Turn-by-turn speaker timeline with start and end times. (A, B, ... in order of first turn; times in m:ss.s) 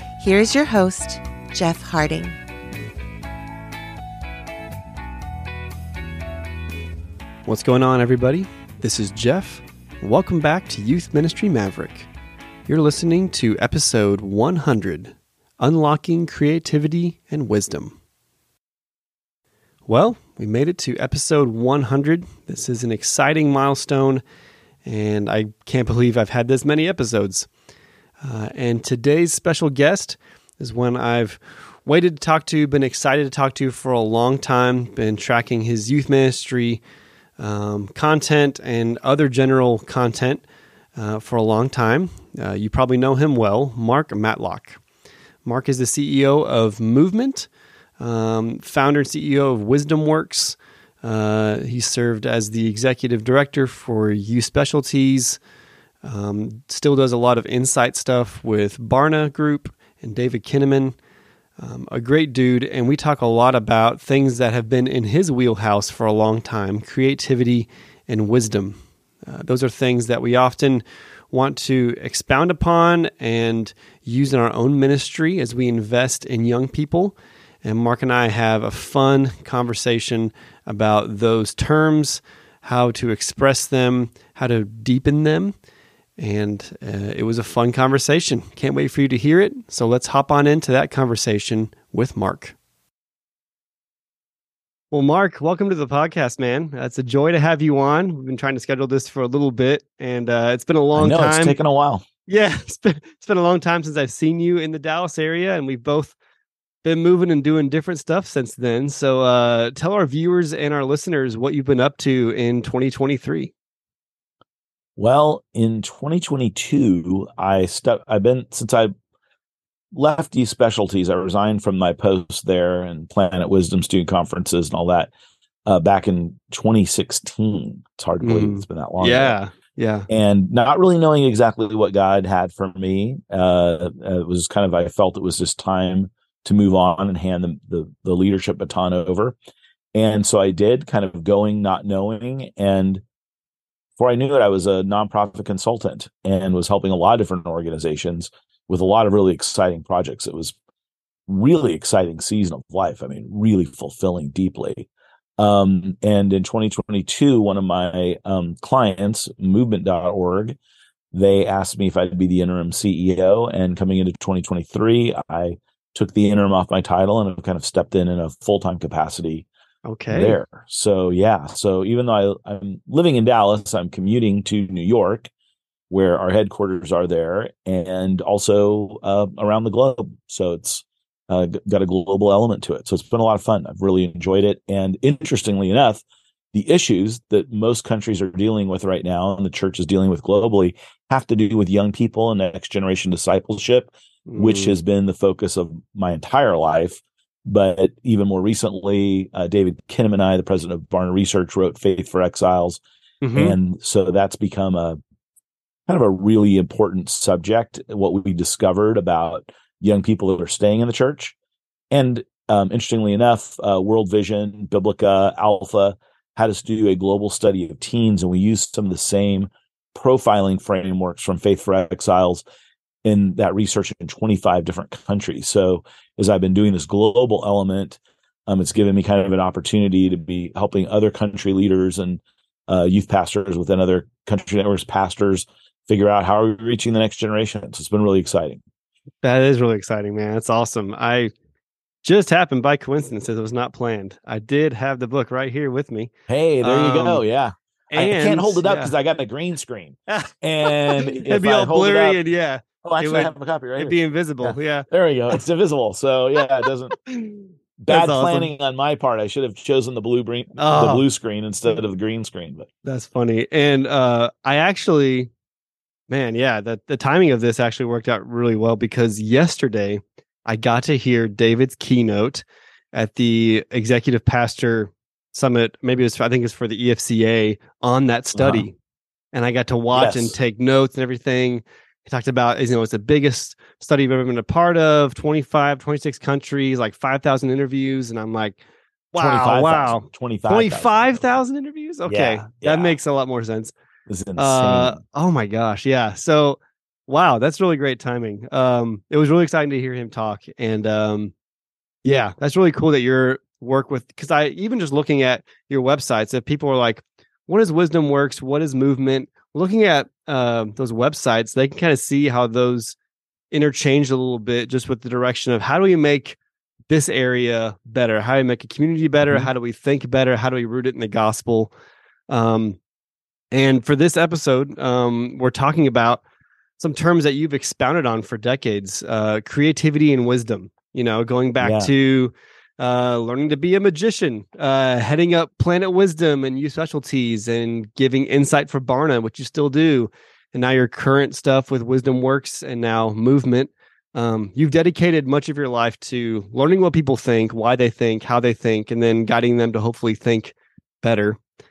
0:00.2-0:02.4 A
0:07.4-0:12.1 B
0:12.7-0:18.0 B
0:19.9-0:24.2 B
0:24.8-0:27.5 B
0:28.2-0:36.8 B
0:37.4-0:40.4 B
0:41.0-0:44.8 B
0:45.4-0:55.4 B
0:56.0-1:01.0 B
1:01.6-1:25.6 B
1:26.2-1:32.5 B
1:34.9-1:41.6 B
1:41.0-1:42.0 C
1:42.3-1:46.2 B
1:46.8-1:53.5 B
1:55.0-1:58.9 C
1:59.9-2:05.1 C
2:05.6-2:09.4 C
2:08.2-2:10.1 B
2:10.1-2:19.4 C
2:19.9-2:23.0 C
2:24.0-2:30.5 C
2:31.3-2:34.9 C
2:35.4-2:40.6 C
2:41.1-2:49.5 C
2:49.8-2:50.4 B
2:50.1-2:55.3 C
2:55.9-3:22.8 C
3:14.3-3:14.8 B
3:23.2-3:23.6 B
3:23.3-3:25.0 C
3:25.9-3:31.3 C
3:31.9-3:42.4 C
3:43.0-3:58.6 C
3:59.2-4:01.3 B
4:02.0-4:06.1 B
4:06.3-4:12.2 C
4:06.6-4:07.2 B
4:07.9-4:08.9 B
4:10.1-4:15.4 B
4:12.8-4:17.0 C
4:17.0-4:18.5 B
4:17.8-4:22.7 C
4:20.6-4:21.0 B
4:22.8-4:25.3 B
4:26.1-4:38.8 B
4:38.3-4:38.6 C
4:39.3-4:48.6 B
4:39.9-4:40.3 C
4:49.1-4:53.7 B
4:49.1-4:51.3 C
4:52.0-4:53.0 C
4:54.1-4:55.0 C
4:54.4-5:01.3 B
5:02.0-5:13.0 B
5:13.5-5:16.4 B
5:16.9-5:21.7 B
5:19.2-5:19.5 C
5:22.3-5:22.8 B
5:23.5-5:26.2 B
5:26.8-5:51.4 B
5:31.6-5:31.9 C